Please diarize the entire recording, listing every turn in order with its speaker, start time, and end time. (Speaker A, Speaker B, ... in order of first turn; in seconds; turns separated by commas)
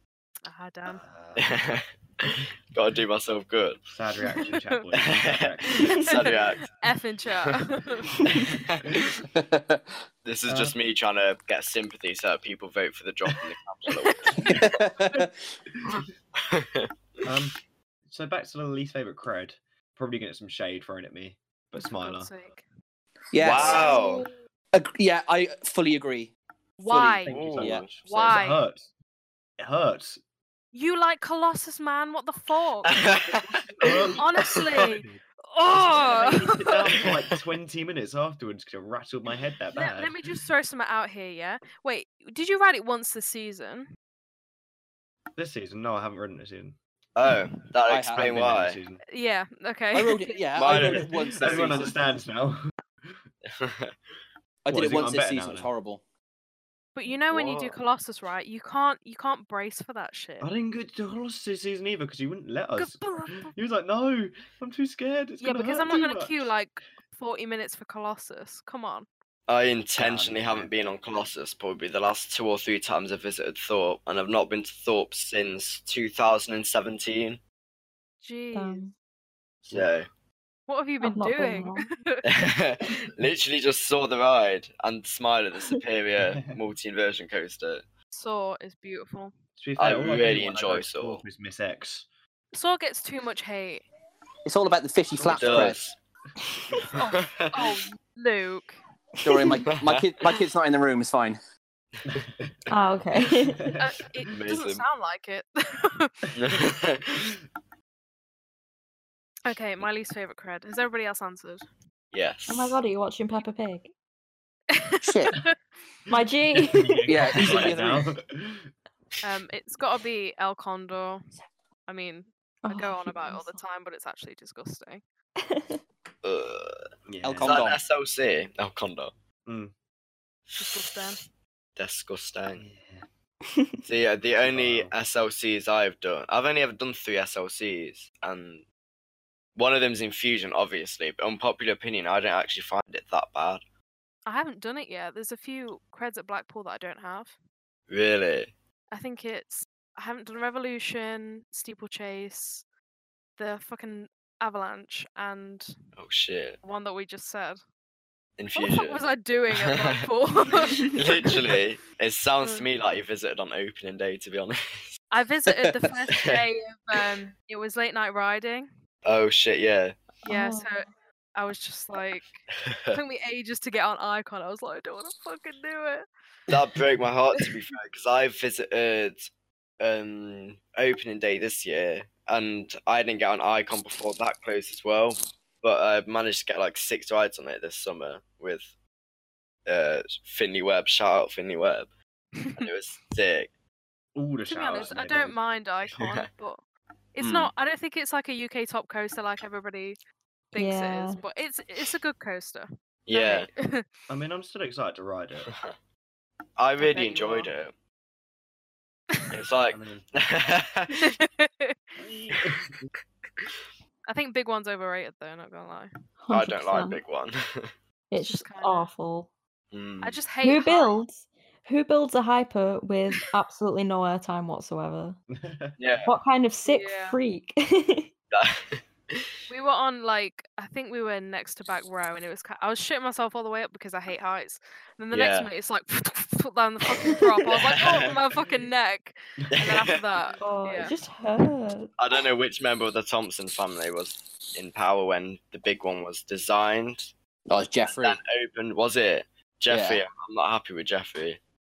Speaker A: 0.5-1.0, Speaker B: 0.8-1.6, Speaker C: 1.4-3.8, Speaker B: 3.9-6.1, Speaker A: 4.4-4.8, Speaker C: 4.9-6.7, Speaker A: 5.9-8.1, Speaker C: 8.2-9.1, Speaker D: 9.3-10.0, Speaker C: 10.2-14.6, Speaker B: 10.5-10.8, Speaker A: 14.3-14.6, Speaker D: 14.5-15.3, Speaker C: 16.4-17.3, Speaker B: 17.2-17.6, Speaker B: 18.1-22.3, Speaker A: 21.8-22.6, Speaker D: 23.3-23.9, Speaker C: 23.4-24.3, Speaker B: 23.4-23.9, Speaker A: 23.6-24.1, Speaker D: 24.7-26.3, Speaker A: 26.8-27.3, Speaker D: 26.8-27.9, Speaker B: 27.2-28.9, Speaker C: 27.3-28.4, Speaker A: 28.0-28.6, Speaker B: 29.6-30.2, Speaker A: 30.7-33.0, Speaker C: 32.8-34.9, Speaker B: 33.3-40.2, Speaker A: 34.1-37.0, Speaker C: 36.9-37.4, Speaker A: 39.7-43.9, Speaker B: 45.4-46.8, Speaker C: 47.1-48.8, Speaker D: 47.9-48.3, Speaker B: 48.1-49.0, Speaker A: 49.1-50.5, Speaker D: 49.9-52.0, Speaker C: 50.5-52.0, Speaker B: 50.6-53.2, Speaker C: 53.5-54.0, Speaker D: 54.6-56.0, Speaker B: 54.7-55.7, Speaker A: 56.9-60.5, Speaker C: 57.3-57.8, Speaker B: 60.4-66.5, Speaker A: 62.8-63.5, Speaker A: 65.4-69.1, Speaker C: 69.5-77.4, Speaker B: 70.0-70.9, Speaker A: 78.2-78.8, Speaker E: 78.5-78.9, Speaker B: 79.7-79.9, Speaker C: 79.7-80.1, Speaker A: 80.7-82.2, Speaker E: 81.0-81.8, Speaker C: 82.2-87.8, Speaker B: 86.2-86.6, Speaker A: 88.1-89.3, Speaker B: 89.6-92.1, Speaker C: 89.8-91.2, Speaker A: 92.5-93.8, Speaker D: 94.4-95.8, Speaker B: 95.2-95.7, Speaker C: 95.2-96.0, Speaker A: 96.9-98.8, Speaker C: 97.0-97.7, Speaker D: 99.2-101.4, Speaker E: 99.3-99.6, Speaker C: 99.7-100.1, Speaker B: 102.1-102.5, Speaker E: 102.7-103.7, Speaker B: 103.4-103.9, Speaker A: 103.8-106.3, Speaker C: 104.3-104.8, Speaker C: 106.3-107.2, Speaker A: 109.4-111.7, Speaker C: 112.1-112.8, Speaker E: 112.5-113.9, Speaker A: 114.7-115.5, Speaker D: 115.0-115.4, Speaker E: 116.1-117.6, Speaker B: 116.5-118.7, Speaker D: 117.0-118.1, Speaker A: 119.2-121.2, Speaker A: 121.9-125.0, Speaker E: 122.6-123.6, Speaker E: 125.4-125.8, Speaker C: 126.2-126.9, Speaker B: 127.0-127.6, Speaker D: 127.2-127.8, Speaker C: 127.4-129.1, Speaker B: 129.4-129.7, Speaker C: 130.5-130.8, Speaker A: 130.6-131.2, Speaker C: 131.8-132.6, Speaker B: 132.6-133.1, Speaker C: 133.8-138.6, Speaker B: 134.3-134.9, Speaker C: 139.6-143.6, Speaker A: 144.2-147.3, Speaker C: 147.9-148.5, Speaker A: 148.9-152.6, Speaker A: 153.4-155.7, Speaker C: 156.0-156.6, Speaker A: 156.6-157.6, Speaker C: 158.4-160.0, Speaker A: 158.5-161.4, Speaker C: 160.9-164.9, Speaker A: 165.1-168.7, Speaker C: 166.1-166.4, Speaker C: 169.0-170.0, Speaker A: 170.2-170.8, Speaker E: 170.2-170.7, Speaker A: 171.3-176.1, Speaker C: 172.5-173.0, Speaker C: 176.5-188.7, Speaker C: 189.7-191.9, Speaker A: 192.4-192.7, Speaker C: 192.6-193.5, Speaker B: 194.1-195.4, Speaker A: 194.4-196.6, Speaker C: 195.9-196.3, Speaker A: 197.2-200.0, Speaker A: 200.5-203.8, Speaker E: 200.5-201.2, Speaker C: 203.1-203.5, Speaker B: 204.1-205.5, Speaker C: 205.5-205.7, Speaker C: 206.6-207.7, Speaker A: 206.8-207.5, Speaker C: 209.3-211.1, Speaker B: 209.7-210.1, Speaker A: 210.9-211.8, Speaker B: 212.0-212.9, Speaker A: 214.1-215.9, Speaker E: 216.2-217.0, Speaker C: 216.3-217.7, Speaker E: 218.1-219.3, Speaker A: 218.2-218.9, Speaker C: 219.7-220.2, Speaker A: 220.0-221.0, Speaker E: 220.4-225.2, Speaker B: 225.3-225.8, Speaker C: 225.8-226.1, Speaker E: 226.0-228.1, Speaker A: 226.7-227.2, Speaker C: 228.3-229.3, Speaker A: 229.5-240.9, Speaker C: 235.1-235.5, Speaker C: 237.5-238.2, Speaker C: 239.5-240.0, Speaker E: 240.4-241.9, Speaker C: 242.0-247.1, Speaker D: 247.5-248.2, Speaker C: 247.9-251.4, Speaker D: 249.7-250.0